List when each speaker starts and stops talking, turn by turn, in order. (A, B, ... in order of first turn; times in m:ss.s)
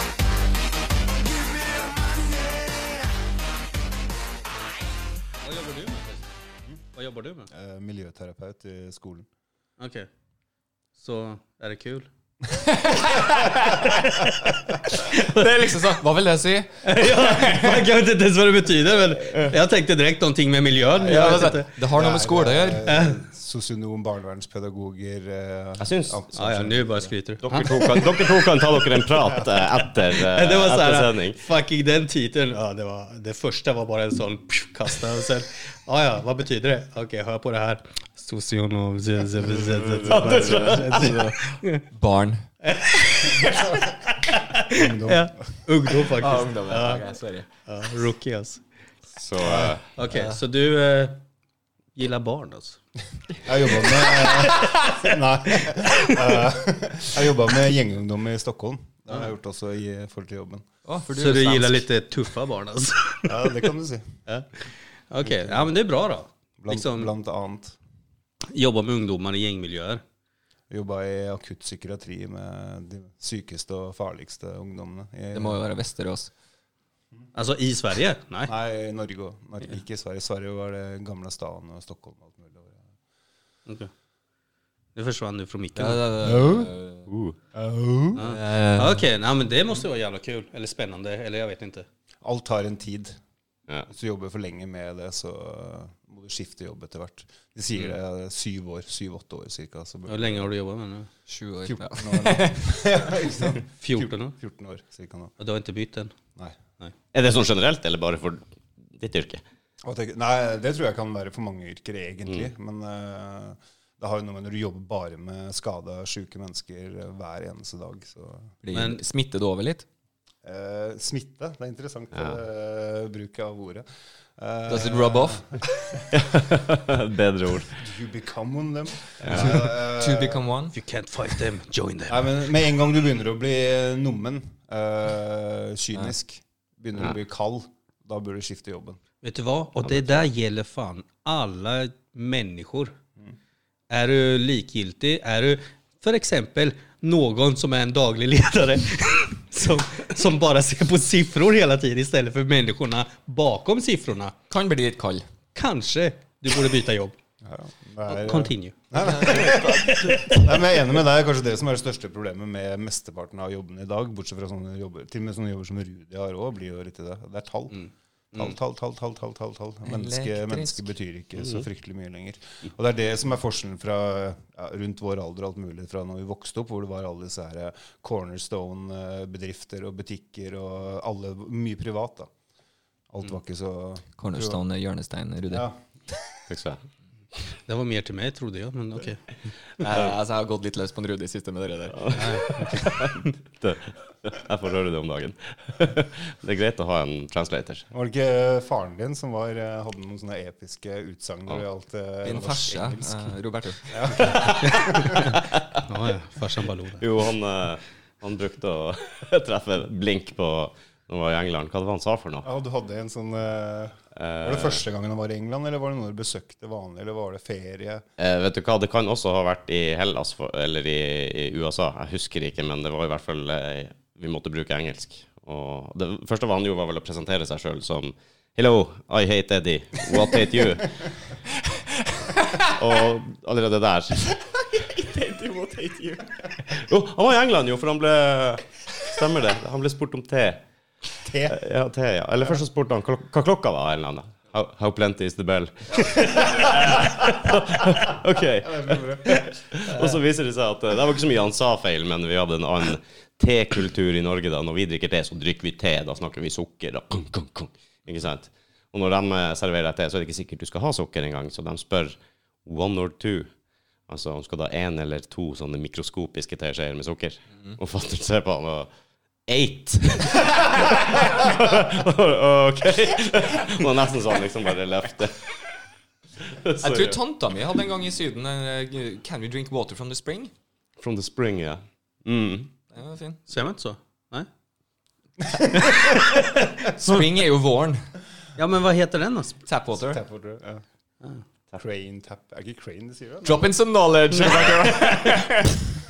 0:05.4-0:06.3 A
0:06.9-0:07.5 A
0:07.5-0:09.3 B
0:09.8-0:10.1 A
0:11.0-0:12.1 A
0:12.6-0:13.9 C
0:13.7-0:15.7 A
0:15.0-0:17.8 C
0:16.8-0:21.7 A
0:21.0-0:27.1 B
0:21.0-0:22.9 C
0:22.8-0:23.2 A
0:25.8-0:26.2 D
0:26.3-0:28.4 A
0:27.4-0:31.4 D
0:29.2-0:29.6 B
0:30.1-0:41.8 A
0:39.8-0:41.2 D
0:40.2-0:43.8 C
0:42.6-0:43.6 A
0:43.4-0:43.9 B
0:44.1-0:47.0 A
0:44.7-0:45.3 B
0:45.9-0:47.4 C
0:47.6-0:48.6 A
0:49.2-0:49.8 D
0:49.4-0:49.8 B
0:49.9-0:51.2 A
0:52.0-0:52.8 A
0:53.4-1:00.6 B
0:54.0-0:54.7 A
0:54.2-0:54.8 C
1:00.8-1:01.8 C
1:01.1-1:03.7 A
1:03.2-1:04.1 B
1:05.1-1:07.1 A
1:05.2-1:05.7 B
1:06.6-1:07.8 B
1:08.5-1:10.0 A
1:10.7-1:15.6 B
1:15.3-1:16.3 C
1:17.3-1:18.5 A
1:18.5-1:22.8 B
1:24.9-1:26.0 A
1:25.8-1:27.0 C
1:26.2-1:26.7 B
1:27.1-1:27.4 D
1:27.5-1:28.2 B
1:28.1-1:31.8 A
1:28.2-1:29.0 C
1:32.2-1:33.2 B
1:33.9-1:40.4 B
1:40.1-1:41.1 A
1:41.3-1:42.7 C
1:41.6-1:45.3 B
1:43.8-1:44.3 A
1:45.4-1:46.1 A
1:47.1-1:49.4 D
1:49.8-1:58.5 B
1:58.6-1:59.8 C
1:58.7-1:59.0 A
2:00.4-2:03.8 B
2:04.4-2:06.0 B
2:04.7-2:05.5 C
2:06.1-2:07.7 D
2:07.7-2:10.5 B
2:09.2-2:09.6 D
2:09.2-2:10.7 C
2:10.7-2:12.4 A
2:12.1-2:19.0 B
2:19.2-2:22.9 A
2:19.9-2:20.1 D
2:23.9-2:34.3 A
2:34.5-2:35.2 C
2:35.5-2:37.2 A
2:37.4-2:47.8 B
2:38.1-2:40.5 A
2:38.9-2:40.0 C
2:47.7-2:48.5 A
2:48.3-3:02.3 B
2:49.8-2:50.9 C
3:03.1-3:04.6 B
3:04.2-3:05.7 C
3:05.5-3:05.8 B
3:06.5-3:06.8 D
3:07.7-3:09.2 A
3:09.8-3:12.6 C
3:12.0-3:17.8 D
3:12.1-3:12.9 A
3:17.9-3:23.2 B
3:22.2-3:24.4 C
3:23.9-3:25.3 B
3:24.3-3:25.3 D
3:24.6-3:27.0 A
3:27.0-3:32.4 D
3:32.4-3:38.0 B
3:34.1-3:34.8 D
3:38.2-3:51.0 D
3:52.6-3:54.2 D
3:54.8-3:56.2 C
3:56.6-4:00.6 D
4:01.2-4:01.6 B
4:01.5-4:23.5 D
4:06.3-4:07.0 B
4:08.0-4:09.4 B
4:24.1-4:28.9 D
4:29.5-4:35.5 D
4:36.4-4:37.2 D
4:36.8-4:40.5 C
4:41.0-4:42.7 D
4:42.9-4:43.4 C
4:43.5-4:44.5 A
4:45.8-4:46.4 A
4:46.8-4:48.0 C
4:48.6-4:49.6 A
4:49.7-4:50.2 C
4:49.9-4:50.8 B
4:51.8-4:53.7 B
4:53.4-4:55.8 C
4:54.4-4:55.3 B